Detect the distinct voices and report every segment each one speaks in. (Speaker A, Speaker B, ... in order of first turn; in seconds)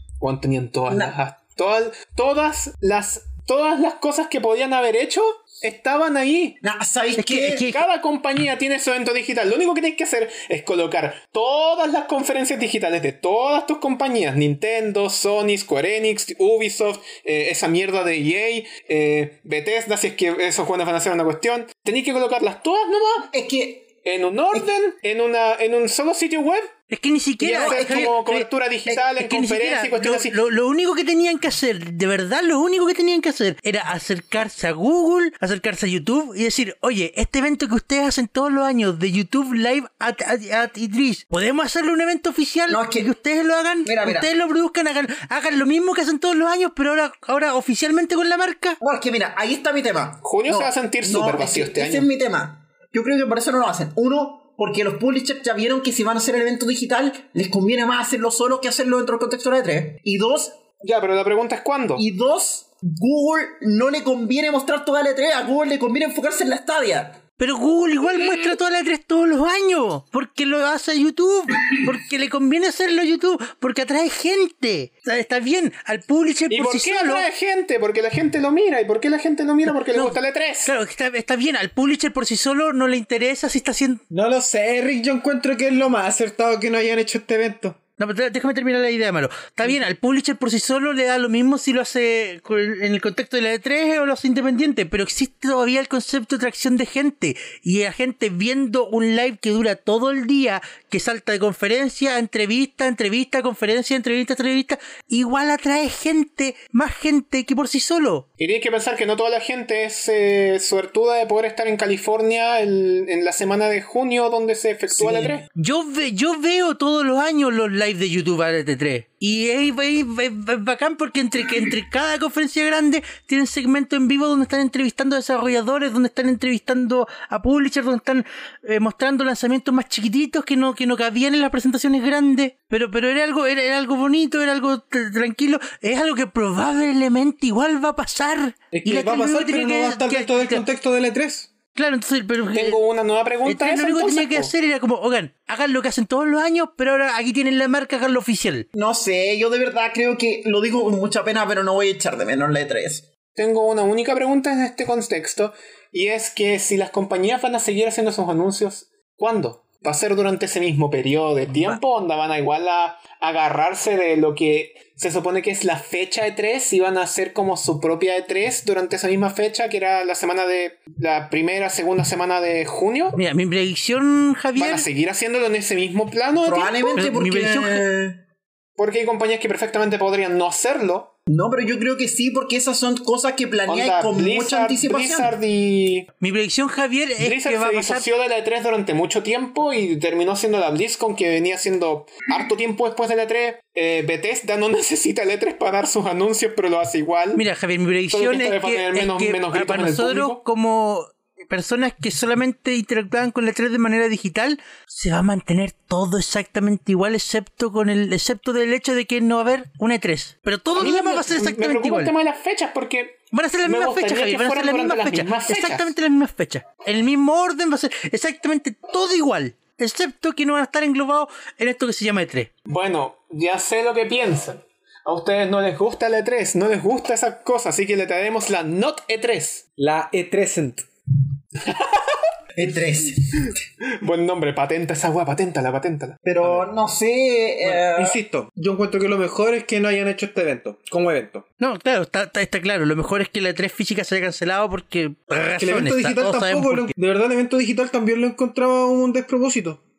Speaker A: 0.2-6.6, 7.7-23.3, 24.0-26.7, 27.4-30.4, 50.2-52.1, 60.8-62.0, 76.5-80.7, 108.4-115.4, 142.5-144.5, 153.3-173.2, 174.6-176.9, 178.8-181.1, 183.7-186.1, 187.2-197.4, 198.1-200.4, 210.7-215.9, 222.7-229.6, 234.0-236.2
Speaker B: 0.9-1.1, 6.6-7.7, 23.3-23.9, 27.4-28.1, 42.7-43.1, 43.8-44.3, 48.8-60.6, 62.0-67.2, 115.0-115.3, 148.7-153.0, 176.4-178.2, 181.3-185.3, 232.6-233.5, 236.2-238.2
Speaker C: 7.2-7.8, 26.9-28.5, 29.1-48.8, 67.4-77.3, 79.8-84.0, 88.0-108.2, 115.5-140.6, 141.7-142.8, 143.4-148.7, 173.1-174.9, 176.9-177.8, 186.2-188.0, 197.3-212.1, 213.3-222.5, 241.6-246.9
Speaker D: 84.1-87.8, 138.7-141.5, 229.8-230.8, 237.6-241.4, 245.6-249.8